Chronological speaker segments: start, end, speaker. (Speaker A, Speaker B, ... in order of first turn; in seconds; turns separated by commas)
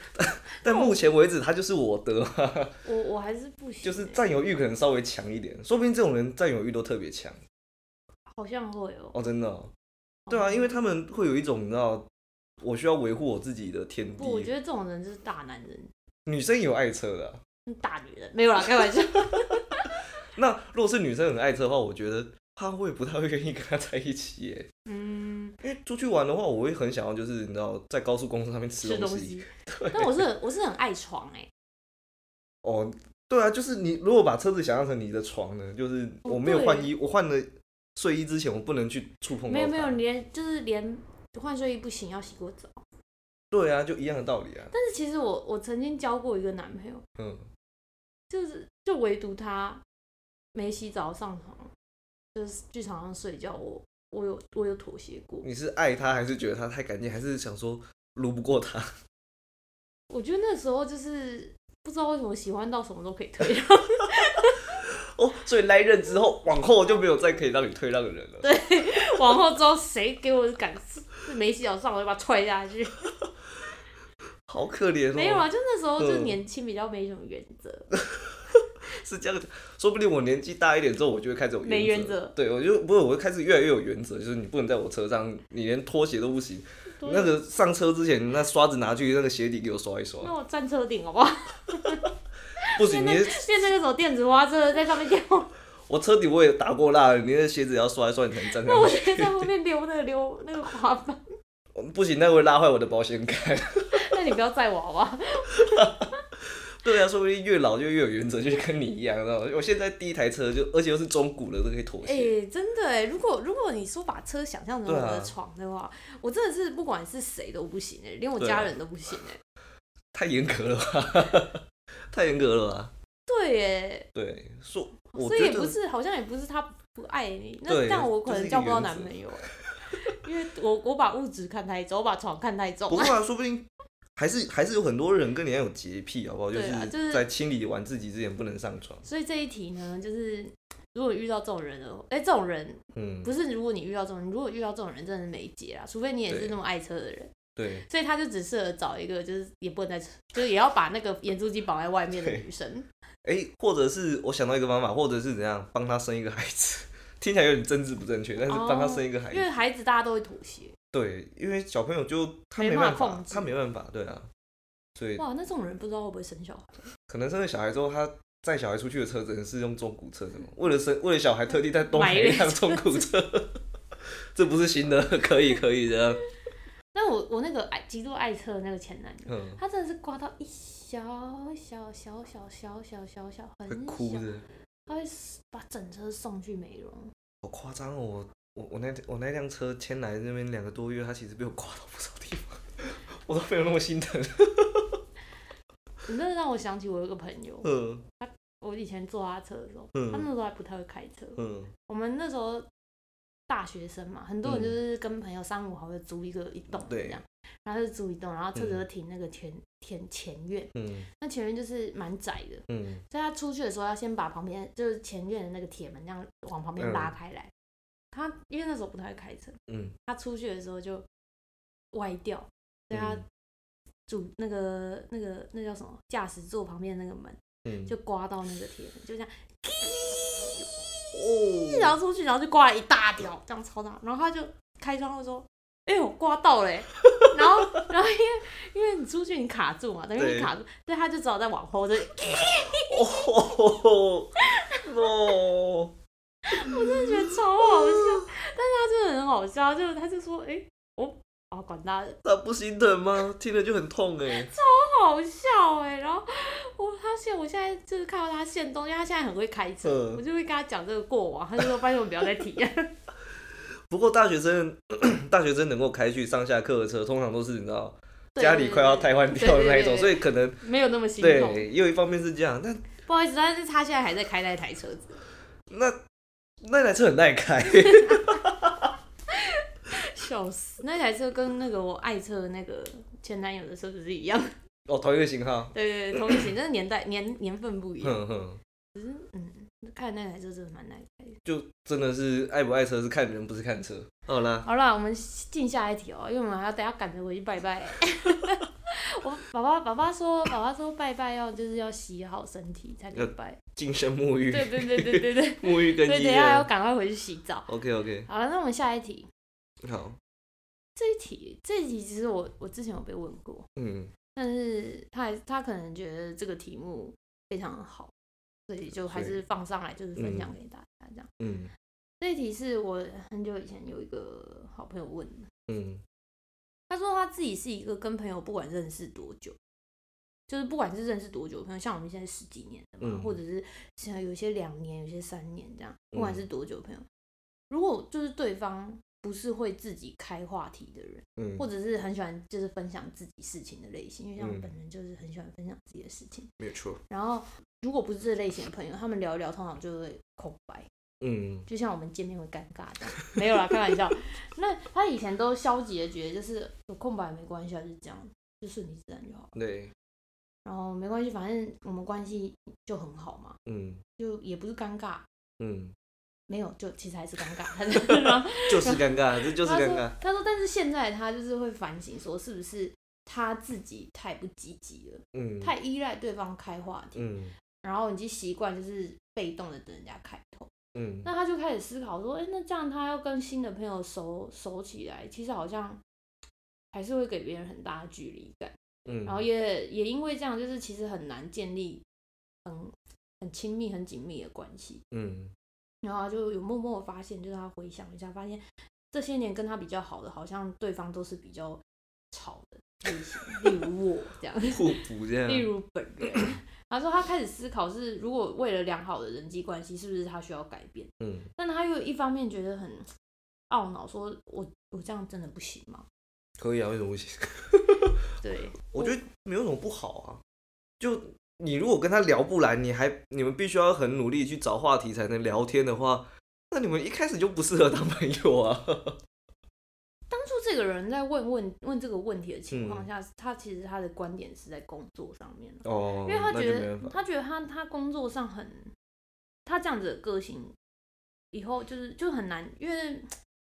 Speaker A: 0.1-2.8, Speaker B: 0.6-1.0, Speaker B: 2.8-4.3, Speaker A: 3.8-7.4, Speaker B: 8.3-9.2, Speaker A: 9.1-9.7, Speaker B: 10.3-10.7, Speaker A: 10.3-12.1, Speaker A: 12.6-14.5, Speaker B: 14.2-15.9, Speaker A: 16.3-17.4, Speaker B: 17.7-20.0, Speaker A: 20.3-24.7, Speaker B: 24.9-25.6, Speaker A: 25.6-30.2, Speaker B: 28.8-31.5, Speaker A: 32.6-40.0, Speaker B: 36.2-36.9, Speaker B: 39.5-42.8, Speaker A: 43.5-44.7, Speaker B: 44.7-47.0, Speaker A: 47.2-47.5, Speaker B: 48.3-49.8, Speaker B: 50.5-51.7, Speaker B: 52.4-55.5, Speaker A: 55.4-58.9, Speaker B: 60.1-64.7, Speaker A: 64.8-68.5, Speaker B: 68.4-73.0, Speaker A: 74.5-75.5, Speaker B: 75.1-77.9, Speaker A: 76.0-76.4, Speaker A: 78.1-90.3, Speaker B: 81.6-82.3, Speaker B: 87.0-87.3, Speaker B: 90.2-92.1, Speaker B: 92.6-95.5, Speaker A: 92.8-93.5, Speaker A: 95.9-99.4, Speaker B: 98.5-101.2, Speaker A: 101.8-104.0, Speaker B: 103.9-106.2, Speaker A: 105.6-106.0, Speaker A: 106.8-112.3, Speaker B: 112.0-119.4, Speaker A: 114.9-115.3, Speaker A: 118.4-118.7, Speaker A: 120.1-122.9, Speaker B: 123.3-124.1, Speaker A: 124.2-125.8, Speaker B: 125.1-133.2, Speaker A: 127.7-129.1, Speaker A: 132.9-139.0, Speaker B: 136.5-137.3, Speaker B: 139.0-152.9, Speaker A: 142.9-143.3, Speaker A: 146.3-146.6, Speaker A: 147.6-147.9, Speaker A: 152.1-152.4, Speaker A: 153.2-159.5, Speaker B: 158.5-160.8, Speaker A: 160.9-164.3, Speaker B: 162.6-163.5, Speaker A: 165.0-165.2, Speaker B: 165.2-166.9, Speaker A: 167.1-173.6, Speaker B: 171.9-173.1, Speaker A: 174.3-176.2, Speaker B: 176.9-184.3, Speaker A: 179.3-179.6, Speaker A: 183.7-184.4, Speaker B: 184.9-187.1, Speaker A: 187.4-195.0, Speaker B: 196.1-202.7, Speaker A: 197.6-198.0, Speaker A: 199.9-200.3, Speaker A: 201.4-201.7, Speaker B: 203.5-217.5, Speaker A: 204.4-204.8, Speaker A: 206.8-207.2, Speaker A: 208.6-208.8, Speaker A: 210.8-211.1, Speaker A: 212.7-213.0, Speaker A: 216.8-217.1, Speaker B: 218.1-221.1, Speaker A: 219.7-219.9, Speaker B: 221.9-223.2, Speaker A: 222.9-223.2, Speaker B: 224.1-243.3, Speaker A: 227.7-227.9, Speaker A: 231.1-231.9, Speaker A: 240.2-240.5, Speaker A: 242.9-245.9, Speaker B: 244.4-245.2, Speaker B: 246.5-252.2, Speaker A: 246.5-248.3, Speaker A: 252.2-254.5, Speaker B: 254.3-262.9, Speaker A: 259.8-260.2, Speaker A: 263.9-270.6, Speaker B: 268.4-271.7, Speaker A: 271.2-272.9, Speaker B: 273.0-275.2, Speaker A: 275.7-276.0, Speaker A: 276.6-278.9, Speaker B: 277.9-278.4, Speaker B: 279.3-284.5, Speaker A: 284.9-286.5, Speaker B: 285.7-288.2, Speaker A: 288.0-288.6, Speaker B: 288.9-291.4, Speaker A: 291.4-294.7, Speaker B: 294.6-303.6, Speaker A: 303.1-306.7, Speaker B: 304.5-307.7, Speaker A: 307.7-308.3, Speaker B: 308.3-309.3, Speaker A: 309.8-310.2, Speaker B: 311.0-313.7, Speaker A: 313.8-314.1, Speaker B: 314.4-318.1, Speaker B: 318.7-321.3, Speaker A: 319.0-319.4, Speaker A: 320.2-320.5, Speaker A: 321.4-321.7, Speaker B: 322.2-325.5, Speaker A: 325.7-326.0, Speaker B: 326.9-329.6, Speaker B: 330.5-337.1, Speaker A: 333.0-333.4, Speaker A: 336.1-336.4, Speaker B: 337.7-346.5, Speaker A: 341.4-341.7, Speaker A: 344.4-344.7, Speaker A: 346.6-347.0, Speaker B: 347.1-350.9, Speaker A: 351.2-351.7, Speaker B: 351.7-359.5, Speaker A: 359.6-359.9, Speaker B: 360.6-363.6, Speaker A: 363.7-364.0, Speaker B: 364.2-365.2, Speaker A: 365.6-365.9, Speaker B: 366.5-377.3, Speaker A: 368.3-370.1, Speaker A: 375.3-375.7, Speaker A: 377.2-377.6, Speaker B: 377.8-380.7, Speaker A: 380.9-381.3, Speaker B: 381.2-386.0, Speaker B: 386.9-392.0, Speaker A: 389.1-389.4, Speaker B: 392.6-395.0, Speaker A: 395.1-395.5, Speaker B: 396.0-413.1, Speaker A: 404.7-405.7, Speaker A: 411.2-411.5, Speaker B: 413.7-416.1, Speaker A: 416.6-418.2, Speaker B: 418.4-419.2, Speaker A: 418.9-420.4, Speaker A: 421.0-429.2, Speaker B: 430.3-438.9, Speaker A: 432.7-433.1, Speaker A: 435.8-437.1, Speaker B: 439.7-440.8, Speaker B: 441.5-443.3